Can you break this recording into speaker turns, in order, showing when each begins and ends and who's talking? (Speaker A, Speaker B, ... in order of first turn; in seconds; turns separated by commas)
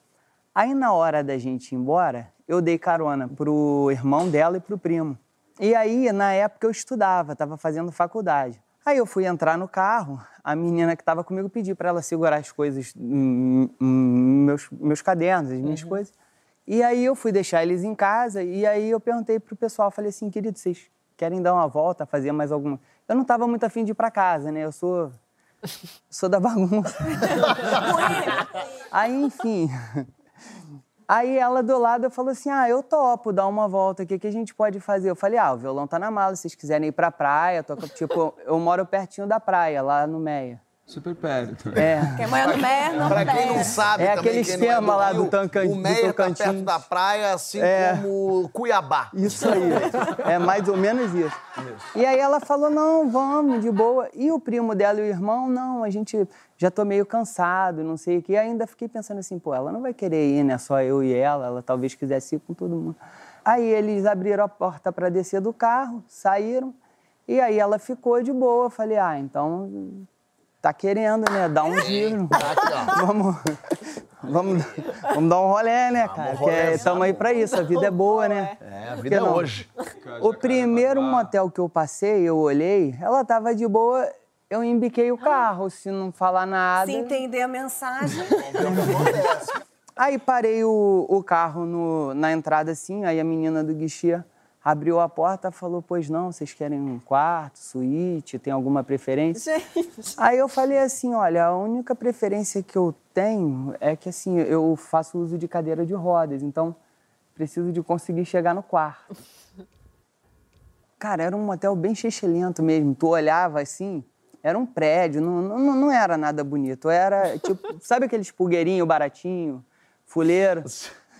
Speaker A: 0.5-16.1, Speaker A: 16.7-25.1, Speaker A: 26.1-27.9, Speaker B: 27.7-28.5, Speaker A: 28.9-30.1, Speaker A: 31.1-40.6, Speaker C: 40.9-42.1, Speaker A: 41.7-42.2, Speaker B: 42.1-43.9, Speaker D: 42.3-50.1, Speaker A: 43.8-46.8, Speaker A: 47.6-48.1, Speaker A: 49.1-51.4, Speaker D: 51.6-51.9, Speaker A: 51.9-66.7, Speaker A: 67.3-70.0, Speaker A: 70.6-73.6, Speaker D: 71.8-73.0, Speaker A: 74.2-78.5, Speaker D: 76.0-77.4, Speaker E: 76.3-78.6, Speaker D: 78.6-79.7, Speaker A: 79.0-79.6, Speaker C: 80.0-81.3, Speaker A: 80.2-87.2, Speaker B: 86.8-89.2, Speaker D: 88.2-89.6, Speaker A: 88.6-89.2, Speaker A: 90.0-99.4, Speaker E: 99.3-100.1, Speaker A: 100.2-106.8, Speaker A: 107.3-109.0, Speaker A: 111.0-120.7, Speaker D: 120.6-120.9